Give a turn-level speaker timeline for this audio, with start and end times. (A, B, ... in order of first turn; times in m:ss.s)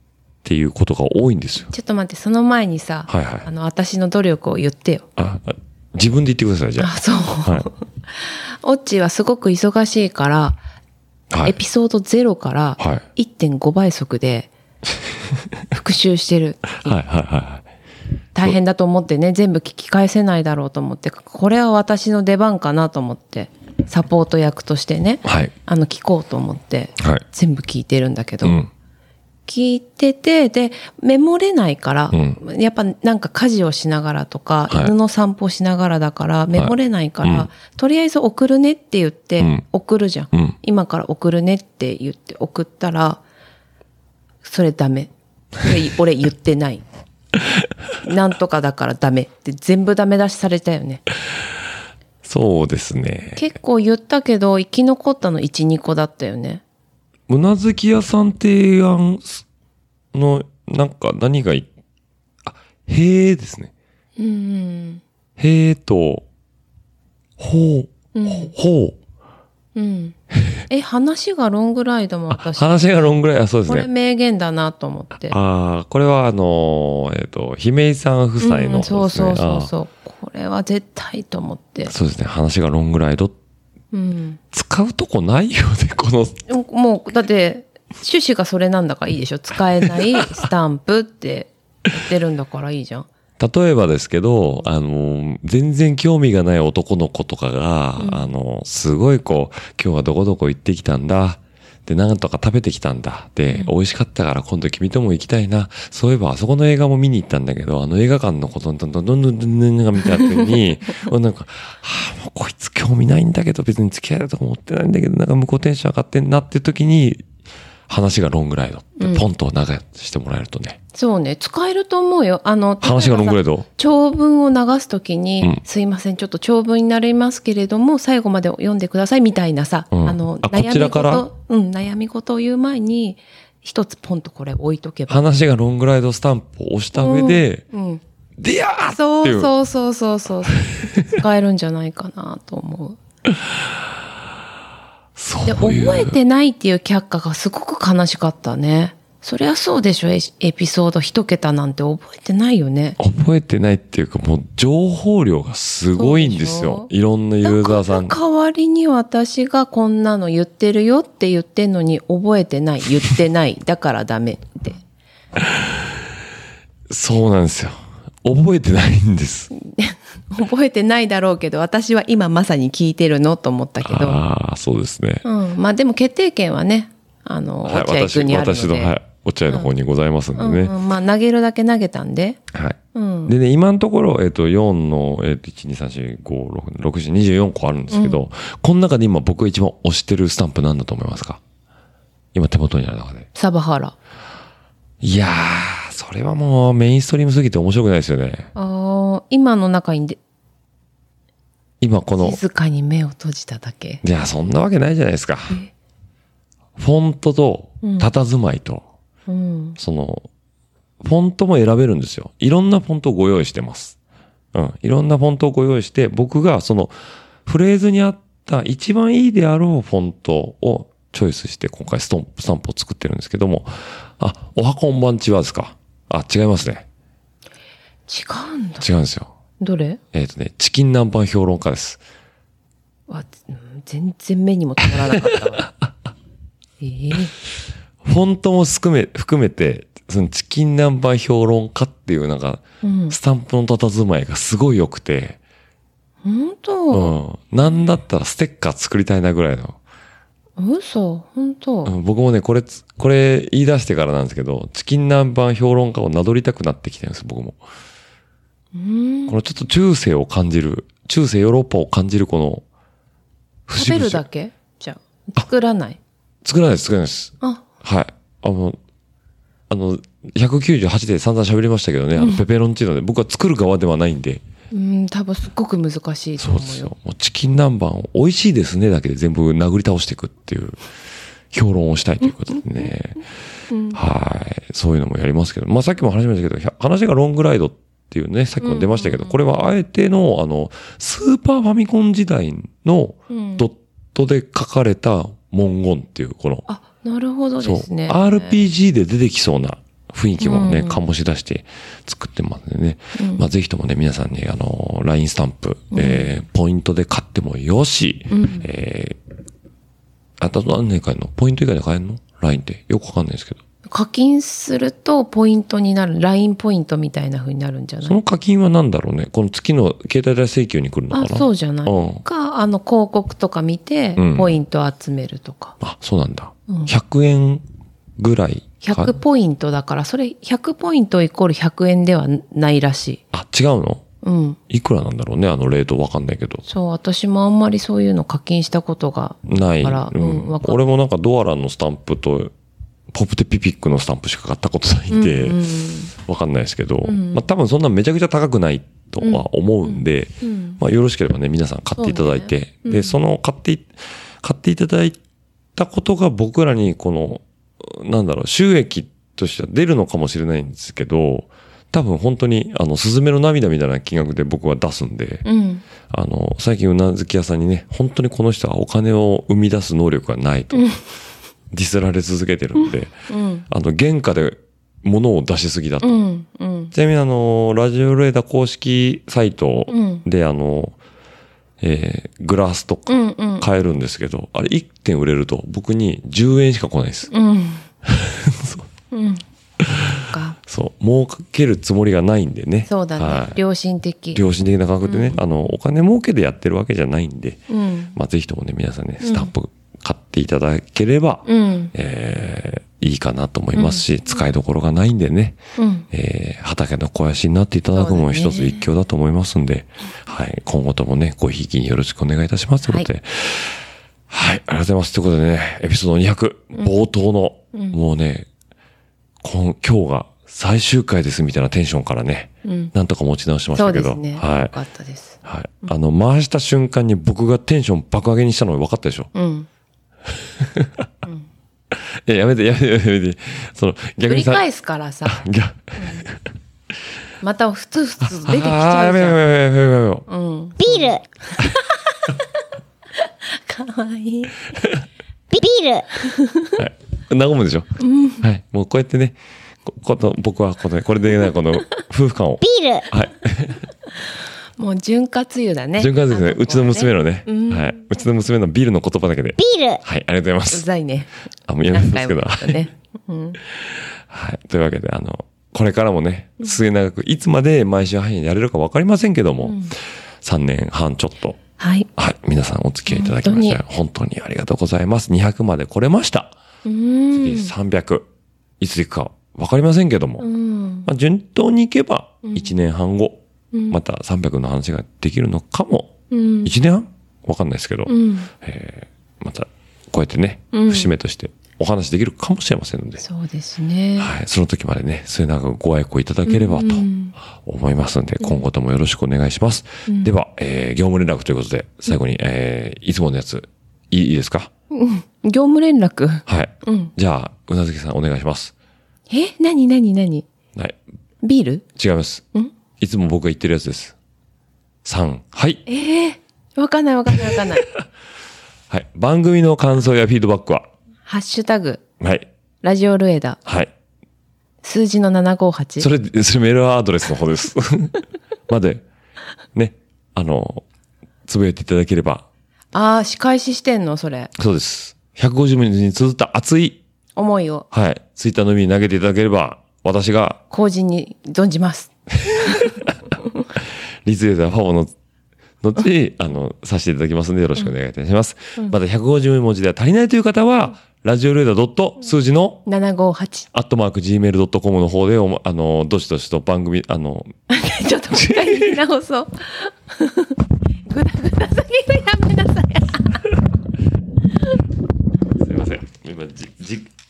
0:00.4-0:01.7 A
0:01.7-0:05.0 B
0:03.1-0:03.5 A
0:05.2-0:06.9 A
0:06.8-0:10.6 B
0:11.3-0:11.6 A
0:11.4-0:14.5 B
0:12.8-0:13.0 A
0:15.7-0:17.0 B
0:16.8-0:17.6 A
0:18.3-0:28.6 B
0:25.2-0:25.5 A
0:27.0-0:27.2 A
0:28.4-0:28.7 A
0:29.5-0:43.2 B
0:32.1-0:32.4 A
0:34.7-0:34.9 A
0:36.5-0:37.5 A
0:39.4-0:39.6 A
0:44.4-0:46.8 B
0:48.0-0:51.0 B
0:52.2-0:53.4 A
0:53.4-0:56.6 B
0:57.3-0:59.4 A
1:00.1-1:01.7 A
1:02.4-1:03.7 A
1:04.2-1:05.0 B
1:05.4-1:06.2 A
1:07.4-1:09.0 A
1:08.1-1:08.5 B
1:09.7-1:10.2 B
1:10.7-1:12.7 B
1:12.3-1:13.9 A
1:13.7-1:15.4 B
1:15.3-1:19.7 A
1:18.4-1:21.9 B
1:21.9-1:23.3 A
1:23.9-1:24.4 B
1:24.5-1:26.4 A
1:26.5-1:33.1 B
1:33.4-1:57.2 A
1:38.0-1:38.3 B
1:57.9-2:00.8 A
1:59.0-1:59.2 B
2:00.9-2:15.2 B
2:02.8-2:03.7 A
2:09.9-2:11.3 A
2:15.1-2:17.6 A
2:17.0-2:18.0 B
2:18.4-2:19.5 A
2:18.9-2:23.0 B
2:20.6-2:21.1 A
2:25.2-2:26.2 A
2:25.4-2:33.0 B
2:33.0-2:38.1 A
2:35.9-2:36.9 B
2:37.4-2:44.8 B
2:45.4-2:45.9 A
2:46.9-2:49.5 A
2:49.5-2:54.2 B
2:53.8-2:55.2 A
2:55.2-2:58.9 B
2:57.6-3:00.7 A
3:00.4-3:02.4 B
3:02.5-3:11.4 A
3:02.9-3:03.3 B
3:07.9-3:08.2 B
3:12.3-3:13.3 A
3:13.3-3:13.9 B
3:15.0-3:18.5 A
3:18.5-3:20.2 B
3:21.8-3:22.4 A
3:22.1-3:24.0 B
3:24.0-3:25.6 A
3:26.8-3:28.8 A
3:27.8-3:28.1 B
3:29.3-3:29.8 B
3:29.8-3:30.3 A
3:31.0-3:34.0 A
3:34.5-3:36.9 A
3:37.4-3:46.8 A
3:48.1-3:48.9 B
3:48.8-3:49.3 A
3:49.6-3:50.0 B
3:50.1-3:52.0 A
3:53.1-3:55.7 B
3:56.8-3:57.3 B
3:58.0-4:05.4 A
4:02.8-4:03.2 B
4:06.2-4:07.1 B
4:06.9-4:09.8 A
4:10.6-4:11.9 B
4:11.8-4:17.6 A
4:18.7-4:19.4 B
4:19.3-4:22.6 A
4:23.7-4:24.2 A
4:23.8-4:26.0 B
4:26.4-4:28.8 A
4:29.7-4:34.4 A
4:32.2-4:32.4 B
4:34.7-4:36.9 B
4:36.4-4:40.8 A
4:41.5-4:43.2 A
4:43.7-4:44.0 B
4:43.9-4:56.6 A
4:48.6-4:49.4 B
4:53.3-4:53.7 B
4:56.7-4:58.6 B
4:57.6-5:09.2 A
5:00.4-5:01.0 B
5:03.2-5:03.4 B
5:05.9-5:06.3 B
5:08.3-5:08.7 B
5:10.4-5:13.6 A
5:13.9-5:18.2 B
5:18.0-5:22.2 A
5:21.1-5:25.8 B
5:24.2-5:24.5 A
5:25.8-5:27.6 A
5:26.7-5:26.9 B
5:28.2-5:29.1 A
5:28.8-5:33.2 B
5:33.3-5:34.0 A
5:34.2-5:34.6 B
5:34.7-5:36.6 A
5:36.6-5:40.8 B
5:39.4-5:42.5 A
5:43.1-5:45.6 A
5:45.1-5:46.1 B
5:46.1-5:55.2 A
5:47.0-5:47.4 B
5:49.2-5:50.8 B
5:52.0-5:53.2 B
5:55.8-6:05.4 A
6:05.4-6:05.8 B
6:06.1-6:11.0 A
6:10.7-6:11.0 B
6:11.7-6:13.1 A
6:13.3-6:13.6 B
6:13.7-6:16.2 A
6:16.0-6:16.9 B
6:16.9-6:21.0 A
6:19.9-6:20.2 B
6:21.8-6:27.3 A
6:23.1-6:23.7 B
6:27.3-6:27.8 B
6:28.0-6:28.9 A
6:29.1-6:29.4 B
6:29.8-6:33.6 A
6:30.3-6:30.6 B
6:32.9-6:34.4 B
6:34.3-6:37.6 A
6:35.0-6:35.4 B
6:37.7-6:38.2 B
6:38.1-6:45.6 A
6:39.2-6:39.5 B
6:41.4-6:41.9 B
6:43.7-6:44.0 B
6:45.8-6:46.1 B
6:46.1-6:58.5 A
6:47.9-6:48.8 B
6:57.7-6:58.0 B
6:59.4-7:04.7 A
7:02.6-7:02.9 B
7:03.7-7:05.9 B
7:05.4-7:09.3 A
7:09.3-7:09.7 B
7:10.4-7:11.0 A
7:11.9-7:14.6 A
7:14.3-7:15.4 B
7:15.2-7:16.5 A
7:16.0-7:16.2 B
7:17.4-7:19.4 B
7:18.2-7:20.2 A
7:20.3-7:22.4 B
7:20.8-7:21.2 C
7:23.2-7:24.7 B
7:25.5-7:26.1 C
7:26.2-7:26.8 B
7:26.8-7:33.9 A
7:28.0-7:28.4 B
7:32.6-7:33.1 C
7:34.8-7:38.0 B
7:36.0-7:40.9 A
7:39.6-7:40.0 C
7:40.7-7:41.3 B
7:41.7-7:42.9 A
7:41.9-7:43.6 B
7:43.7-7:51.6 A
7:49.6-7:49.9 B
7:51.8-7:52.1 B
7:52.2-7:56.6 A
7:53.1-7:53.8 B
7:56.8-7:57.7 B
7:57.3-7:58.2 A
7:58.8-8:00.5 A
8:00.4-8:01.1 B
8:01.0-8:13.2 A
8:02.4-8:02.7 B
8:03.7-8:04.0 B
8:06.3-8:06.7 B
8:08.1-8:08.5 B
8:10.7-8:11.1 B
8:13.2-8:14.3 B
8:14.2-8:24.7 A
8:16.5-8:17.3 B
8:20.1-8:20.3 B
8:24.9-8:27.1 B
8:26.5-8:28.7 A
8:29.3-8:30.5 B
8:31.4-8:31.8 B
8:32.0-8:32.4 A
8:33.0-8:34.1 A
8:35.0-8:35.8 A
8:35.9-8:37.9 B
8:38.9-8:40.9 A
8:41.2-8:42.0 B
8:42.2-8:42.5 A
8:42.8-8:43.6 B
8:43.6-8:43.9 A
8:44.8-8:46.1 B
8:46.0-8:49.0 A
8:49.7-8:50.8 A
8:51.5-8:52.4 A
8:52.9-8:54.5 B
8:54.6-8:57.0 A
8:57.4-8:57.8 B
8:57.9-9:00.6 A
9:00.7-9:03.0 B
9:02.5-9:02.9 A
9:04.2-9:05.1 A
9:05.8-9:12.8 A
9:12.8-9:13.7 B
9:13.7-9:17.5 A
9:17.7-9:23.5 B
9:18.3-9:18.9 A
9:25.5-9:27.1 A